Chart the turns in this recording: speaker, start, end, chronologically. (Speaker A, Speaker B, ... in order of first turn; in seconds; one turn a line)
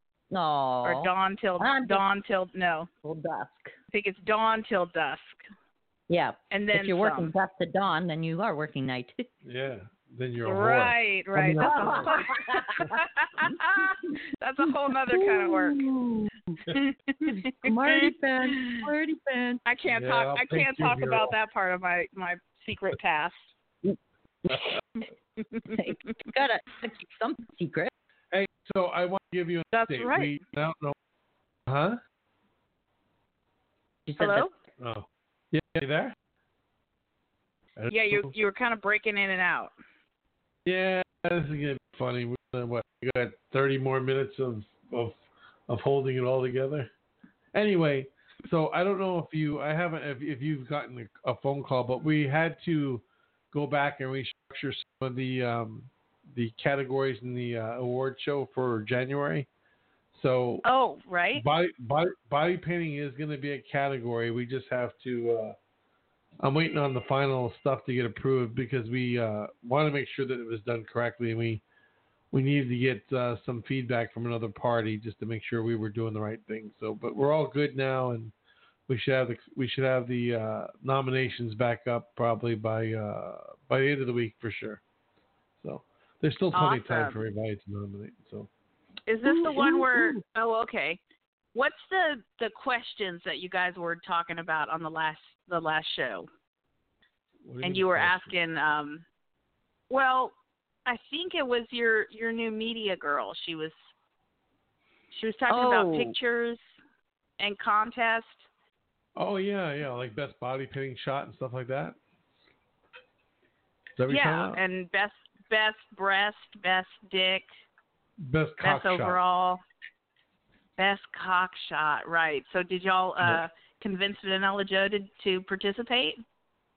Speaker A: 0.3-2.0
Speaker B: 0.8-2.9
Speaker A: 3.0-3.7
Speaker B: 3.9-5.4
Speaker A: 6.1-9.3
Speaker B: 6.5-7.3
Speaker C: 9.4-12.2
Speaker B: 10.4-15.8
Speaker A: 11.6-12.9
Speaker A: 15.1-16.7
Speaker B: 16.7-18.9
Speaker A: 17.2-19.6
Speaker B: 19.7-23.5
Speaker C: 19.9-21.3
Speaker A: 23.9-24.8
Speaker A: 25.6-27.9
Speaker C: 28.3-31.0
Speaker B: 29.7-30.3
Speaker C: 31.7-32.0
Speaker A: 34.1-34.5
Speaker B: 34.2-34.5
Speaker C: 34.8-36.1
Speaker C: 37.8-38.3
Speaker B: 37.9-39.7
Speaker C: 40.6-46.9
Speaker C: 47.5-59.5
Speaker C: 60.1-60.6
Speaker B: 60.6-61.4
Speaker C: 61.4-65.6
Speaker C: 66.4-71.6
Speaker C: 72.3-78.3
Speaker C: 78.9-84.8
Speaker C: 85.6-88.5
Speaker B: 86.5-87.2
Speaker B: 89.1-91.0
Speaker C: 89.4-89.9
Speaker A: 89.5-89.8
Speaker B: 91.5-96.3
Speaker C: 97.5-98.3
Speaker B: 97.6-99.0
Speaker B: 99.9-100.3
Speaker B: 100.9-103.8
Speaker B: 105.1-106.6
Speaker A: 105.5-106.2
Speaker B: 107.4-108.5
Speaker C: 109.2-112.0
Speaker C: 114.0-114.6
Speaker B: 114.1-117.5
Speaker C: 118.2-119.2
Speaker B: 118.6-119.6
Speaker B: 120.8-126.2